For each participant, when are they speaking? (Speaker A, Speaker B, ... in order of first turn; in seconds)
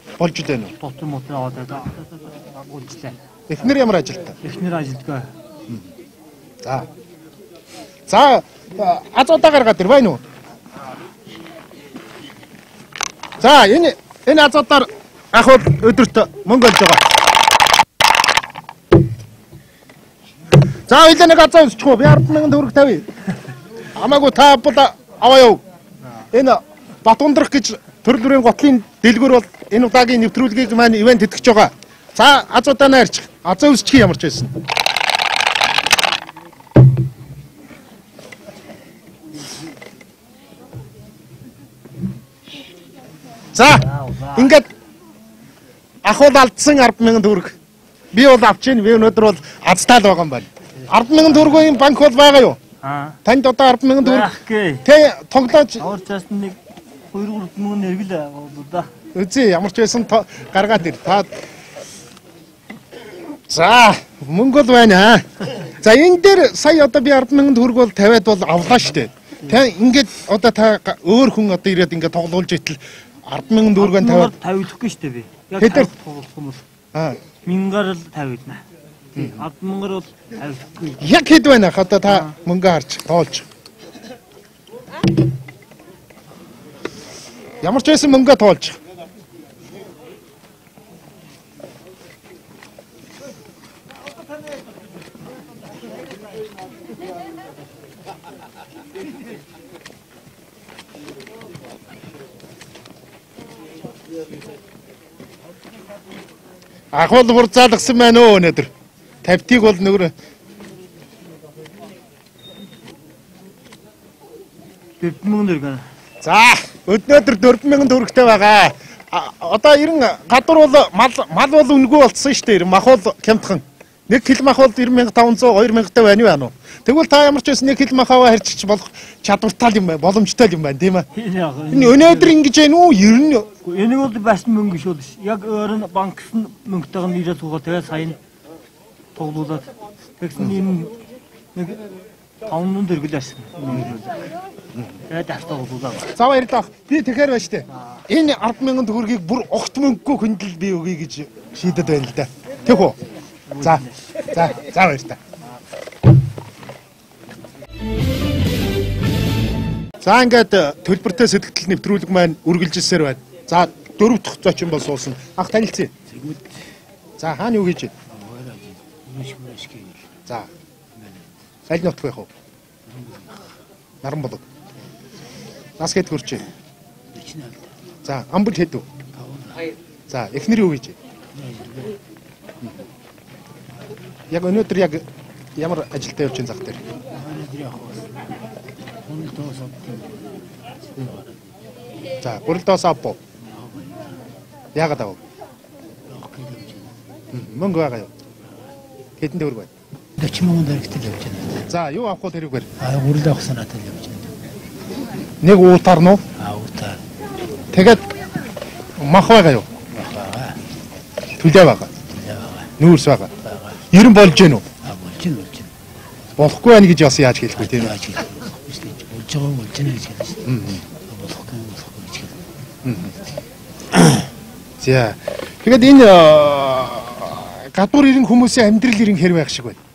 Speaker A: 0.2-0.7, 3.5-4.3, 6.6-6.9, 8.1-10.2, 13.4-17.0, 20.9-23.1, 23.9-25.6, 26.3-34.5, 43.5-44.7, 46.0-47.5, 48.1-52.6, 53.2-54.3, 54.8-55.8, 59.1-61.3, 63.5-74.3, 75.6-75.9, 76.9-77.2, 79.2-79.4, 81.0-83.5, 87.6-88.8, 106.9-108.7, 109.2-110.1, 116.2-131.1, 131.7-133.5, 146.2-153.0, 153.6-155.2, 160.0-165.9, 167.2-167.9, 171.7-172.3, 174.0-174.4, 175.8-176.5, 178.0-178.8, 180.1-180.9, 184.3-185.0, 185.6-186.8, 192.2-193.2, 194.7-195.2, 197.3-198.1, 199.2-199.7, 201.7-202.7, 205.4-206.2, 207.7-208.0, 209.0-209.7, 211.4-211.9, 212.8-213.3, 213.9-214.7, 216.4-217.9, 220.4-220.8, 222.8-223.1, 224.8-229.8
Speaker B: 0.8-3.2, 4.4-5.3, 43.7-44.6, 51.1-51.7, 52.8-53.2, 54.0-54.8, 55.8-56.6, 57.1-58.9, 73.8-76.6, 77.4-78.6, 79.2-81.0, 82.0-82.3, 115.0-115.8, 131.1-132.3, 133.6-138.2, 139.1-140.9, 141.5-141.8, 142.4-144.2, 145.1-146.1, 153.5-154.0
Speaker C: 166.1-166.6, 168.1-170.2, 170.9-171.9, 172.9-173.4, 177.1-177.7, 178.9-179.7, 181.3-182.0, 187.0-188.3, 189.1-190.3, 190.8-191.5, 193.4-194.2, 196.1-196.9, 200.2-201.7, 202.8-204.3, 206.3-207.0, 209.9-210.6, 212.0-212.7, 213.4-213.8, 214.8-215.7, 217.5-222.4